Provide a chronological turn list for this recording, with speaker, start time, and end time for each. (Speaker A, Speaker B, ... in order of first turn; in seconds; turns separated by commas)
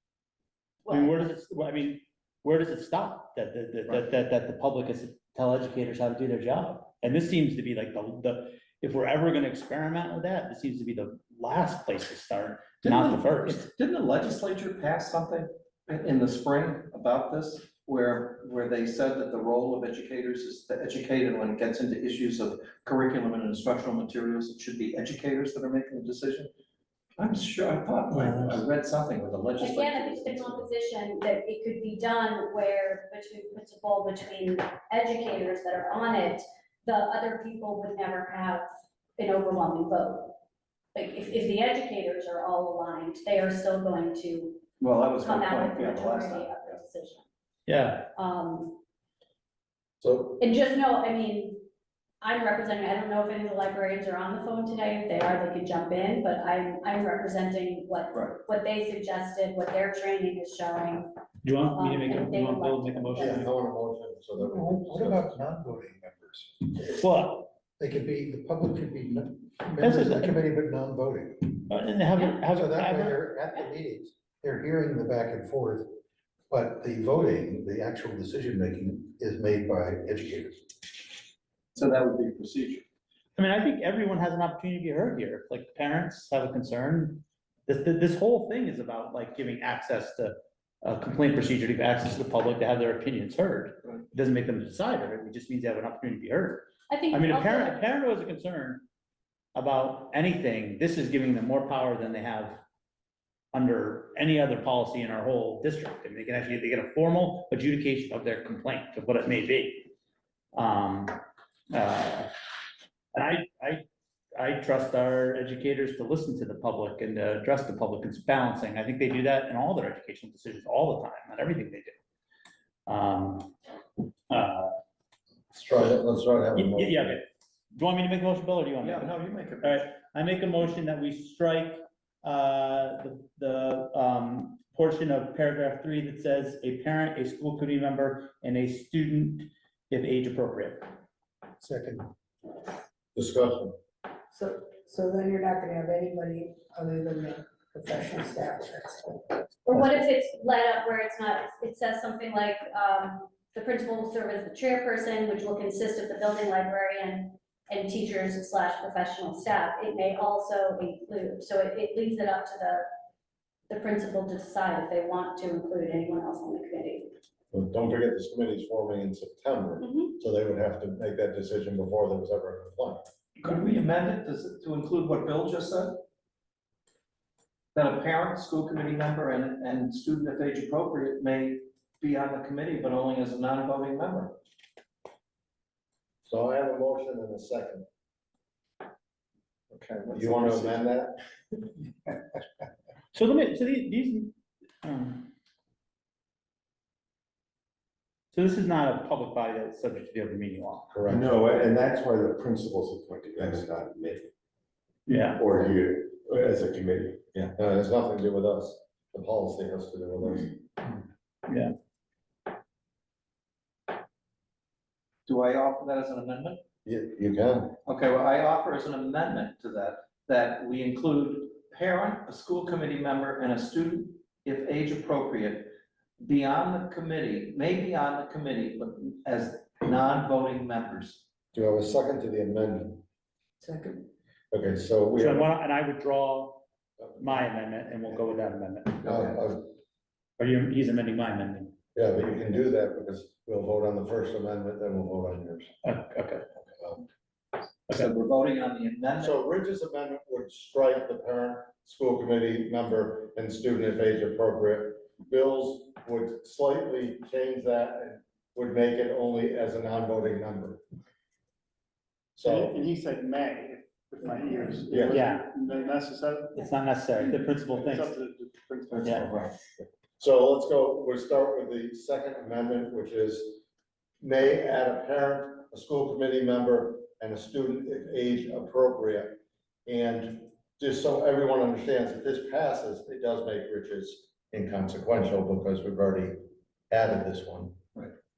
Speaker A: 0.9-13.7, Speaker B: 12.8-26.5, Speaker B: 27.2-30.7, Speaker C: 28.2-28.5, Speaker D: 29.6-40.4, Speaker D: 40.9-44.6, Speaker B: 44.8-46.8, Speaker D: 45.2-47.2, Speaker A: 47.7-48.1, Speaker D: 48.1-48.8, Speaker E: 50.0-50.4, Speaker D: 50.4-51.6, Speaker D: 52.2-61.2, Speaker A: 61.4-63.5, Speaker D: 61.7-63.4, Speaker E: 63.2-65.2, Speaker F: 64.4-66.9, Speaker A: 66.8-67.5, Speaker F: 67.8-76.0, Speaker A: 69.8-70.4, Speaker A: 71.7-73.2, Speaker F: 76.5-80.6, Speaker B: 81.7-82.8, Speaker A: 83.3-98.8, Speaker D: 96.9-97.8, Speaker A: 99.5-102.6, Speaker A: 103.5-109.9, Speaker A: 110.5-112.3, Speaker A: 113.1-113.8, Speaker A: 114.3-121.9, Speaker A: 122.9-123.5, Speaker A: 124.3-124.8, Speaker E: 125.5-127.2, Speaker A: 126.5-129.1, Speaker B: 128.8-129.9, Speaker A: 129.6-140.8, Speaker F: 141.6-142.1, Speaker E: 143.1-143.7, Speaker G: 144.3-149.3, Speaker D: 149.6-162.8, Speaker D: 163.7-167.1, Speaker E: 167.5-173.0, Speaker D: 169.8-170.1, Speaker B: 173.4-176.0, Speaker B: 177.7-184.4, Speaker E: 186.3-187.8, Speaker B: 189.7-190.8, Speaker E: 190.1-191.2, Speaker A: 193.1-195.3, Speaker A: 198.3-200.9, Speaker E: 200.9-201.3, Speaker C: 201.1-204.3, Speaker A: 205.1-205.4, Speaker C: 205.4-207.2, Speaker E: 207.3-210.5, Speaker A: 211.5-211.7, Speaker B: 215.3-216.6, Speaker E: 216.8-217.7, Speaker B: 217.8-231.2, Speaker E: 231.5-233.0, Speaker G: 233.6-234.0, Speaker E: 234.5-235.5, Speaker A: 235.2-236.6, Speaker E: 237.0-237.3, Speaker A: 237.2-239.3, Speaker E: 239.0-239.7, Speaker A: 240.4-241.7, Speaker E: 241.9-245.7, Speaker A: 245.8-246.4, Speaker B: 247.9-249.4, Speaker E: 249.2-260.8, Speaker E: 262.4-262.7, Speaker H: 262.4-266.6, Speaker E: 264.9-265.2, Speaker A: 265.1-265.4, Speaker A: 266.6-268.1, Speaker H: 267.2-269.2, Speaker A: 269.0-269.3, Speaker E: 270.2-273.6, Speaker E: 274.2-286.4, Speaker E: 286.9-287.8